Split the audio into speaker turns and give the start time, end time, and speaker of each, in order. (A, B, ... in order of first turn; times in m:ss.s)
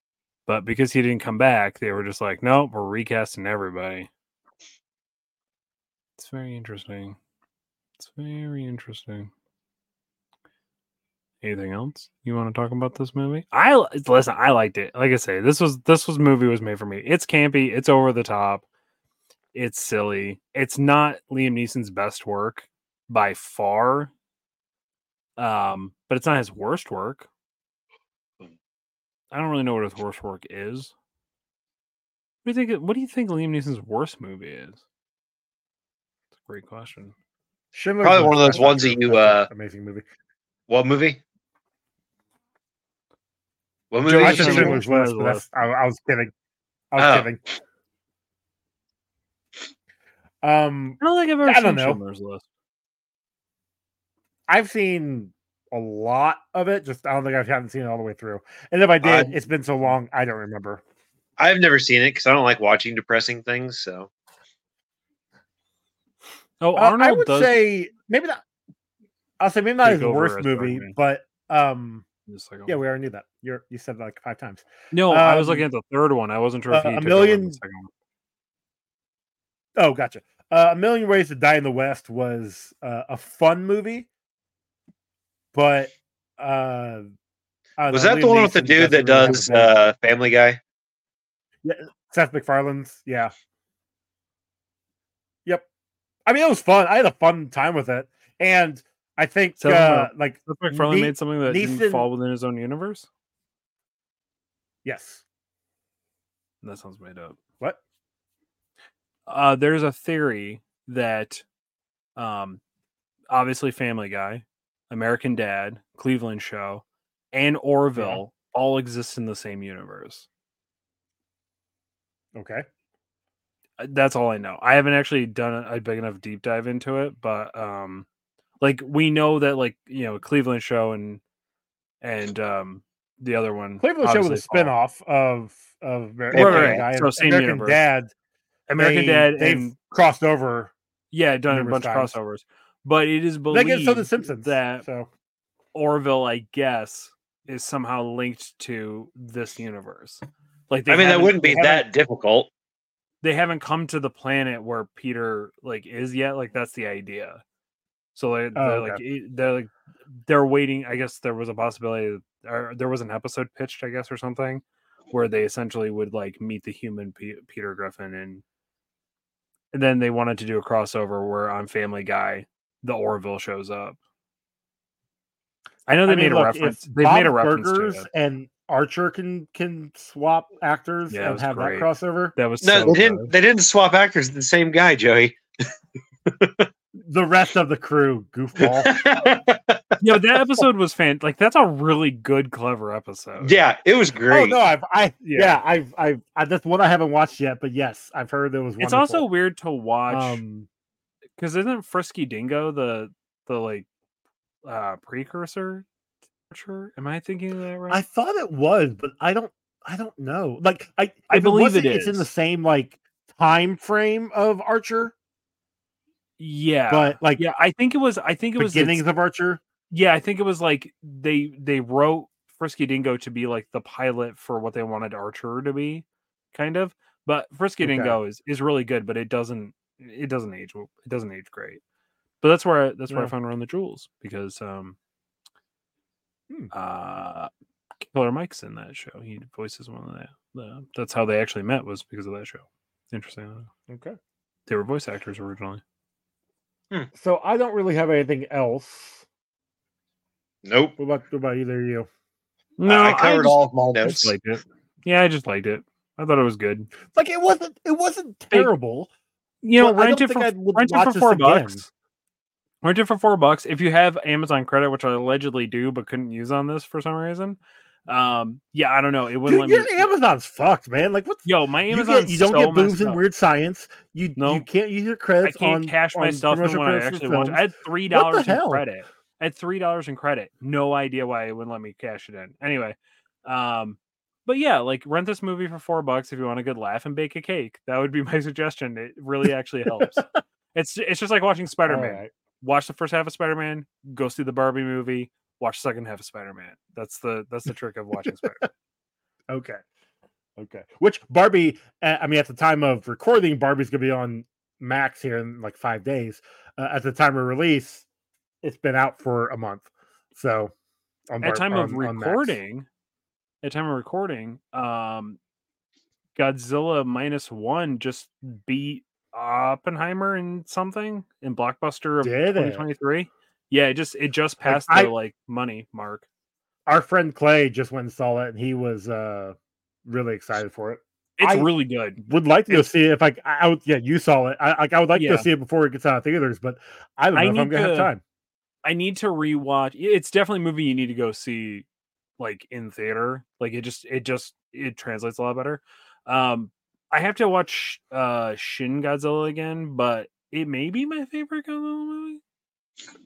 0:00.5-0:04.1 A
0:06.2-0:07.2 A
0:08.0-0:09.3 A
0:11.4-0:18.6 A
0:19.5-0:24.1 A
0:25.4-0:27.3 A
0:29.3-0:30.9 A
0:32.4-0:34.8 A
0:36.4-0:37.1 A
0:37.7-0:40.0 B
0:38.0-0:39.5 C
0:40.7-0:41.2 C
0:43.9-0:44.8 C
0:44.0-0:45.4 A
0:44.1-0:46.3 B
0:46.9-0:47.4 B
0:47.0-0:47.3 C
0:50.4-0:52.0 B
0:51.0-0:52.4 A
0:54.5-1:00.8 B
0:59.0-0:59.3 C
1:01.4-1:04.1 C
1:06.6-1:07.6 A
1:06.8-1:08.4 B
1:09.4-1:12.1 B
1:09.8-1:11.0 A
1:12.3-1:12.8 A
1:12.7-1:15.6 B
1:14.9-1:17.9 A
1:16.7-1:17.6 B
1:19.8-1:24.1 B
1:25.5-1:27.1 B
1:27.8-1:29.8 B
1:27.9-1:30.6 C
1:31.6-1:33.3 B
1:36.3-1:42.1 B
1:39.6-1:43.1 A
1:44.8-1:45.2 B
1:46.6-1:47.4 A
1:49.3-1:51.4 A
1:52.2-1:52.6 A
1:53.3-2:00.3 A
1:58.0-1:58.2 B
2:02.4-2:02.7 B
2:03.8-2:08.1 A
2:08.6-2:11.2 A
2:12.0-2:14.7 A
2:13.8-2:18.1 B
2:16.3-2:16.8 C
2:16.4-2:17.8 A
2:18.7-2:19.7 A
2:18.8-2:20.7 B
2:21.1-2:24.8 A
2:21.5-2:22.1 B
2:23.5-2:25.1 B
2:25.7-2:31.6 A
2:30.9-2:32.5 C
2:31.4-2:31.9 B
2:33.2-2:37.4 A
2:38.2-2:39.7 A
2:38.6-2:39.0 B
2:40.2-2:48.4 A
2:49.7-2:54.0 A
2:55.9-2:58.1 A
2:56.1-3:02.3 B
3:01.1-3:03.3 A
3:02.6-3:05.7 C
3:06.3-3:06.7 C
3:07.0-3:08.9 B
3:08.6-3:10.0 C
3:10.0-3:13.6 A
3:13.4-3:14.6 C
3:14.3-3:19.2 B
3:15.2-3:15.6 A
3:18.8-3:20.4 A
3:20.1-3:20.7 B
3:21.4-3:23.9 A
3:24.6-3:25.8 A
3:26.5-3:28.0 A
3:27.9-3:35.1 B
3:31.3-3:32.3 A
3:36.4-3:39.0 A
3:36.9-3:37.4 B
3:38.6-3:39.6 B
3:39.9-3:51.8 A
3:47.8-3:48.2 B
3:52.4-3:55.0 A
3:56.7-3:57.5 A
3:58.0-4:03.7 A
4:03.9-4:04.2 B
4:04.7-4:05.8 A
4:07.2-4:09.2 B
4:10.6-4:10.9 C
4:11.0-4:12.1 B
4:12.8-4:16.9 A
4:12.8-4:14.3 C
4:17.1-4:19.1 B
4:19.6-4:21.9 A
4:19.8-4:21.8 B
4:22.8-4:30.1 A
4:29.5-4:38.8 B
4:31.4-4:33.2 A
4:34.4-4:34.7 A
4:35.4-4:58.7 A
4:50.1-4:50.4 B
4:51.9-4:52.3 B
4:59.5-4:59.8 B
5:00.6-5:08.0 B
5:08.6-5:10.7 B
5:11.3-5:12.6 B
5:11.4-5:12.9 A
5:13.6-5:15.4 A
5:16.4-5:26.3 A
5:22.2-5:22.9 B
5:24.6-5:25.1 B
5:26.9-5:31.7 B
5:31.4-5:32.9 A
5:32.2-5:38.2 B
5:35.2-5:35.5 A
5:37.3-5:38.1 A
5:38.8-5:41.8 A
5:42.4-5:52.4 A